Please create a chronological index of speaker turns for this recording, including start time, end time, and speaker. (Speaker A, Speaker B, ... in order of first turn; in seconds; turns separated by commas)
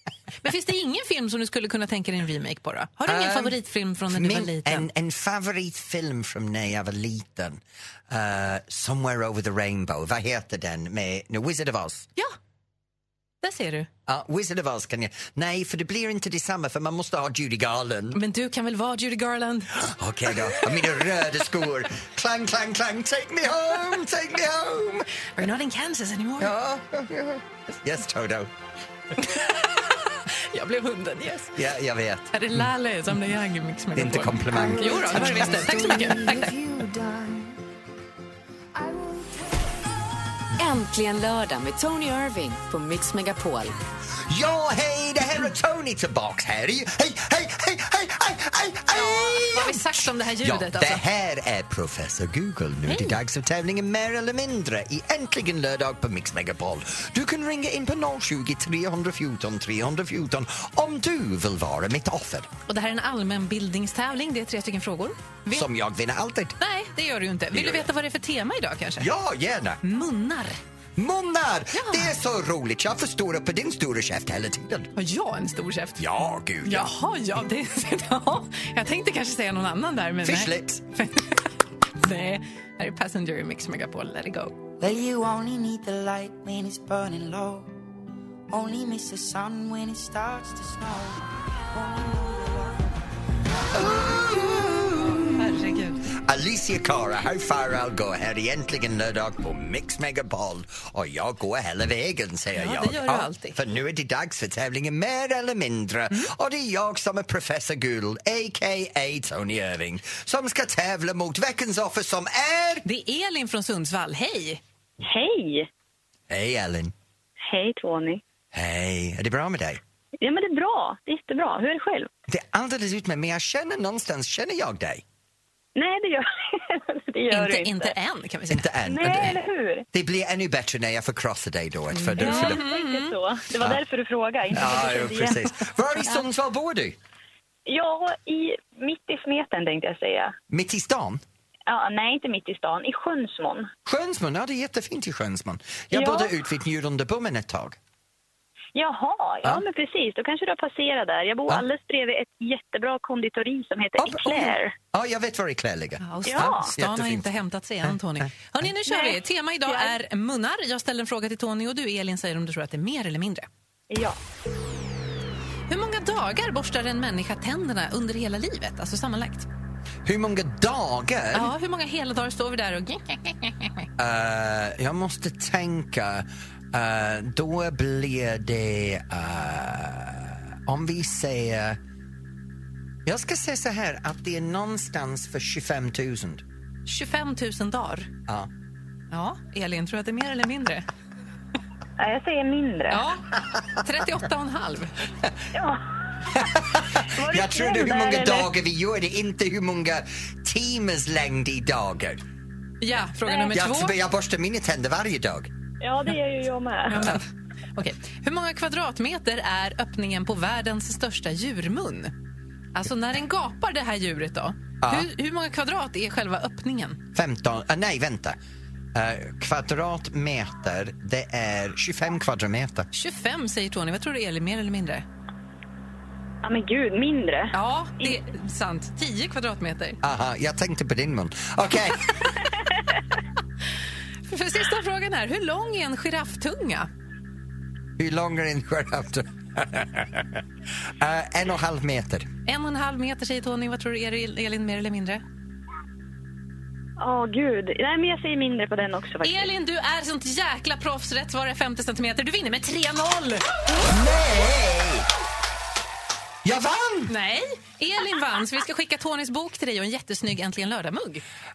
Speaker A: 0.4-4.9, Speaker B: 3.0-3.6, Speaker B: 4.1-12.1, Speaker A: 13.4-13.9, Speaker B: 14.1-18.2, Speaker A: 18.1-20.7, Speaker B: 19.8-25.1, Speaker A: 25.4-26.5, Speaker B: 26.4-28.5, Speaker A: 29.2-31.6, Speaker B: 31.5-32.6, Speaker A: 32.3-36.5, Speaker B: 33.9-36.3, Speaker C: 36.4-37.4, Speaker D: 40.6-43.8, Speaker B: 44.3-62.5, Speaker A: 48.9-51.0, Speaker A: 52.9-53.2, Speaker A: 62.7-65.7, Speaker B: 65.5-66.6, Speaker A: 66.6-69.1, Speaker B: 67.5-67.9, Speaker B: 69.0-69.8, Speaker A: 69.8-70.6, Speaker B: 71.0-74.9, Speaker A: 71.7-72.1, Speaker A: 75.0-76.0, Speaker B: 76.0-76.9, Speaker A: 76.6-84.5, Speaker B: 80.2-80.8, Speaker C: 84.8-87.7, Speaker C: 88.5-91.2, Speaker C: 91.7-92.9, Speaker B: 93.7-95.2, Speaker A: 95.3-96.0, Speaker B: 96.1-112.8, Speaker A: 102.5-103.6, Speaker A: 112.8-114.6, Speaker E: 115.0-115.7, Speaker B: 116.3-116.9, Speaker E: 117.4-118.2, Speaker B: 118.5-119.8, Speaker E: 120.2-122.1, Speaker B: 122.3-125.0, Speaker E: 125.8-127.9, Speaker A: 127.3-128.7, Speaker B: 128.5-129.4, Speaker E: 128.8-129.8, Speaker B: 129.9-132.6, Speaker A: 131.9-133.1, Speaker E: 132.2-135.4, Speaker B: 134.5-136.9, Speaker E: 137.7-140.3, Speaker B: 140.5-141.2, Speaker E: 141.7-143.7, Speaker B: 143.8-147.8, Speaker E: 145.9-146.3, Speaker E: 148.7-154.7, Speaker B: 154.0-157.3, Speaker A: 156.0-163.5, Speaker E: 156.3-156.7, Speaker E: 158.9-159.9, Speaker E: 163.9-164.2, Speaker A: 165.7-169.5, Speaker B: 170.0-171.5, Speaker A: 171.3-173.9, Speaker B: 174.0-181.8, Speaker B: 183.1-186.4, Speaker A: 186.8-188.1, Speaker A: 189.1-190.8, Speaker E: 192.0-193.0, Speaker A: 192.9-194.9, Speaker E: 195.5-198.5, Speaker B: 196.3-202.2, Speaker A: 202.8-203.9, Speaker B: 203.5-205.5, Speaker E: 205.8-207.1, Speaker A: 206.9-212.1, Speaker A: 212.7-217.0, Speaker B: 214.8-215.1, Speaker B: 217.1-218.4, Speaker B: 218.9-222.9, Speaker A: 222.9-225.0, Speaker E: 226.4-228.2, Speaker A: 227.5-230.0, Speaker B: 230.0-232.3, Speaker A: 234.3-236.9, Speaker B: 238.0-242.3, Speaker A: 242.4-245.2, Speaker E: 247.0-249.5, Speaker A: 249.2-253.4, Speaker B: 253.8-255.1, Speaker B: 256.4-257.1, Speaker A: 257.1-261.2